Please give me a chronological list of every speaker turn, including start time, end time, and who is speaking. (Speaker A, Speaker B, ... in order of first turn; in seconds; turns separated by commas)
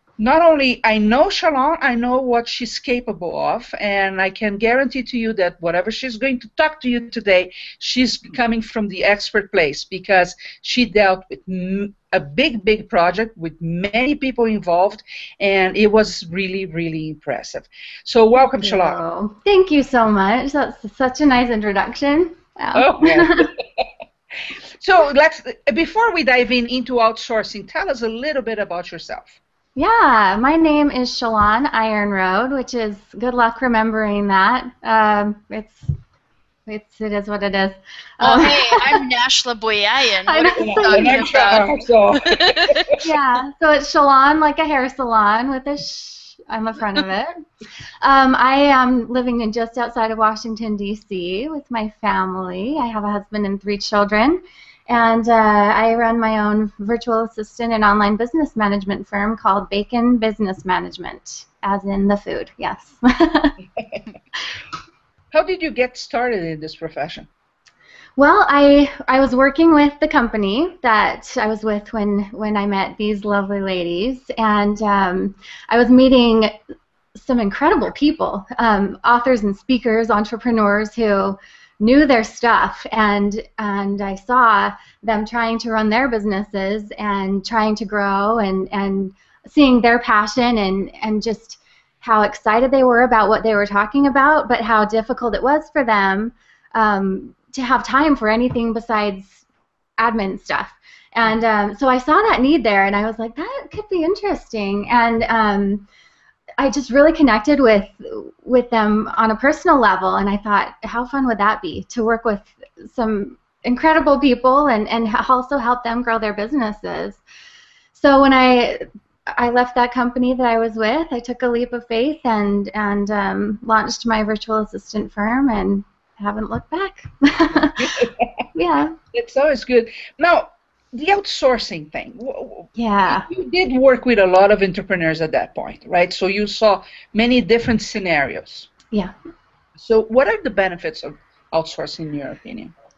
Speaker A: 0.2-19.0, Speaker B: 18.6-23.5, Speaker A: 22.7-23.9, Speaker A: 24.8-29.4, Speaker B: 29.8-35.9, Speaker B: 36.7-39.0, Speaker C: 38.2-42.9, Speaker B: 40.2-41.4, Speaker A: 40.6-43.0, Speaker B: 43.0-47.4, Speaker B: 48.0-63.5, Speaker A: 63.8-64.0, Speaker A: 65.3-67.3, Speaker B: 68.2-76.5, Speaker B: 77.2-99.4, Speaker B: 100.0-105.8, Speaker B: 106.6-117.2, Speaker B: 117.9-128.0, Speaker A: 127.8-128.4, Speaker B: 128.5-129.0, Speaker A: 129.1-138.7, Speaker B: 132.8-133.3, Speaker A: 139.8-142.7